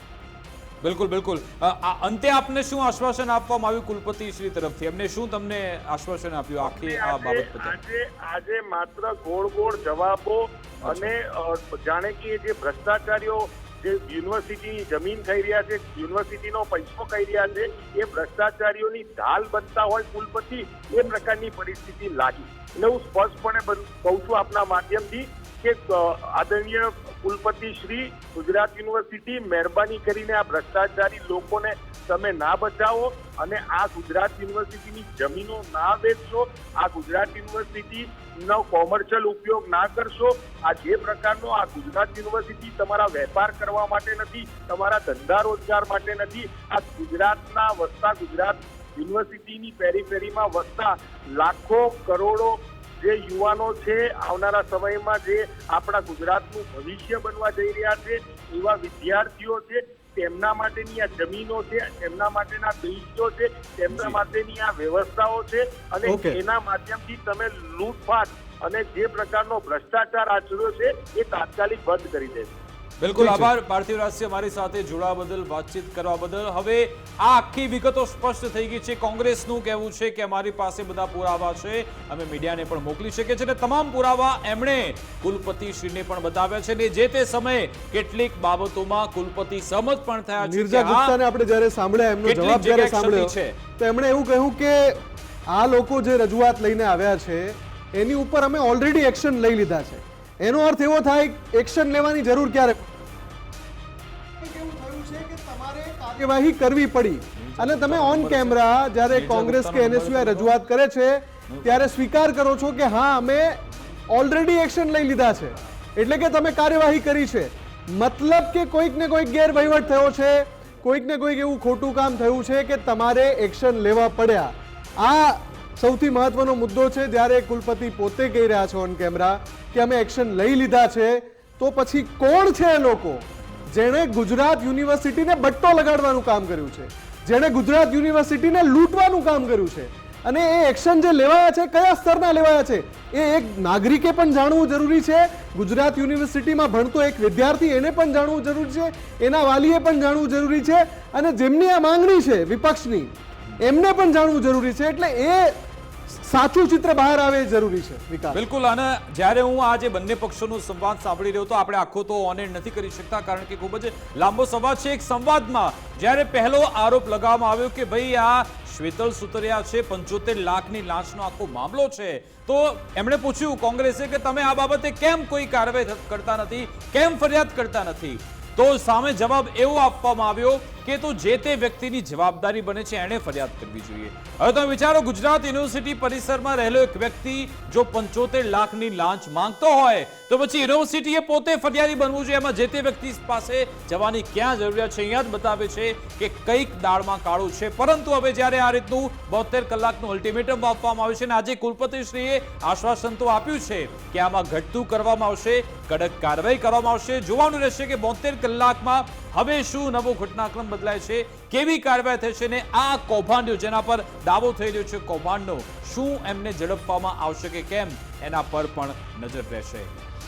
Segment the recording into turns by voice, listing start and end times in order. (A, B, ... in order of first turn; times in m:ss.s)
0:00.8-0:07.8 A
0:06.6-1:12.6 B
0:10.8-0:11.1 A
1:03.9-1:04.2 A
1:06.0-1:06.4 C
1:13.0-1:31.1 A
1:13.1-1:13.5 C
1:30.4-1:42.9 C
1:32.2-1:33.6 A
1:44.4-2:38.4 C
1:47.4-1:50.5 A
1:51.5-1:51.9 A
2:38.3-3:39.9 A